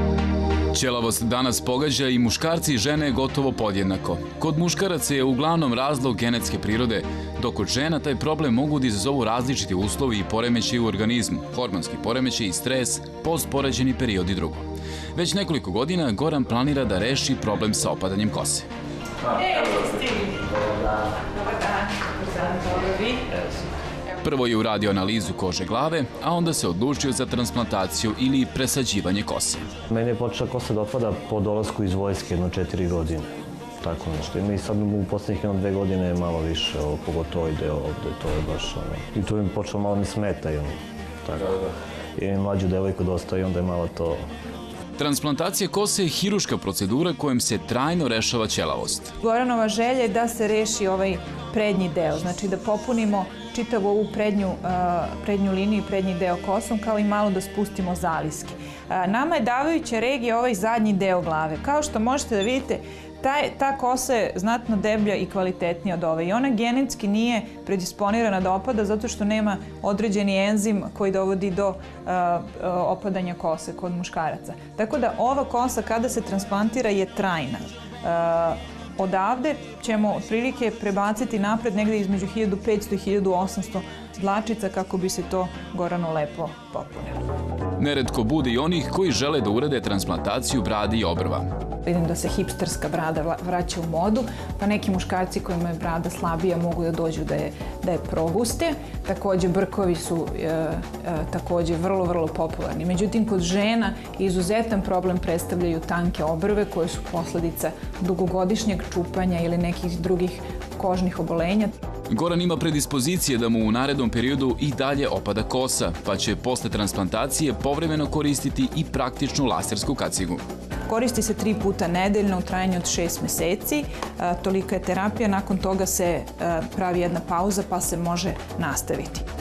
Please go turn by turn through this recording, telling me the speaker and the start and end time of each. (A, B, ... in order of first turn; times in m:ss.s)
0:00.7-0:18.7 A
0:19.3-0:20.4 B
0:21.3-0:23.2 B
0:24.2-0:29.6 A
0:29.9-0:33.3 C
0:33.8-0:44.2 C
0:45.0-0:49.1 A
0:49.2-1:27.2 B
1:27.8-1:31.5 A
1:31.8-1:51.7 B
1:52.1-2:00.4 A
2:00.9-2:09.2 B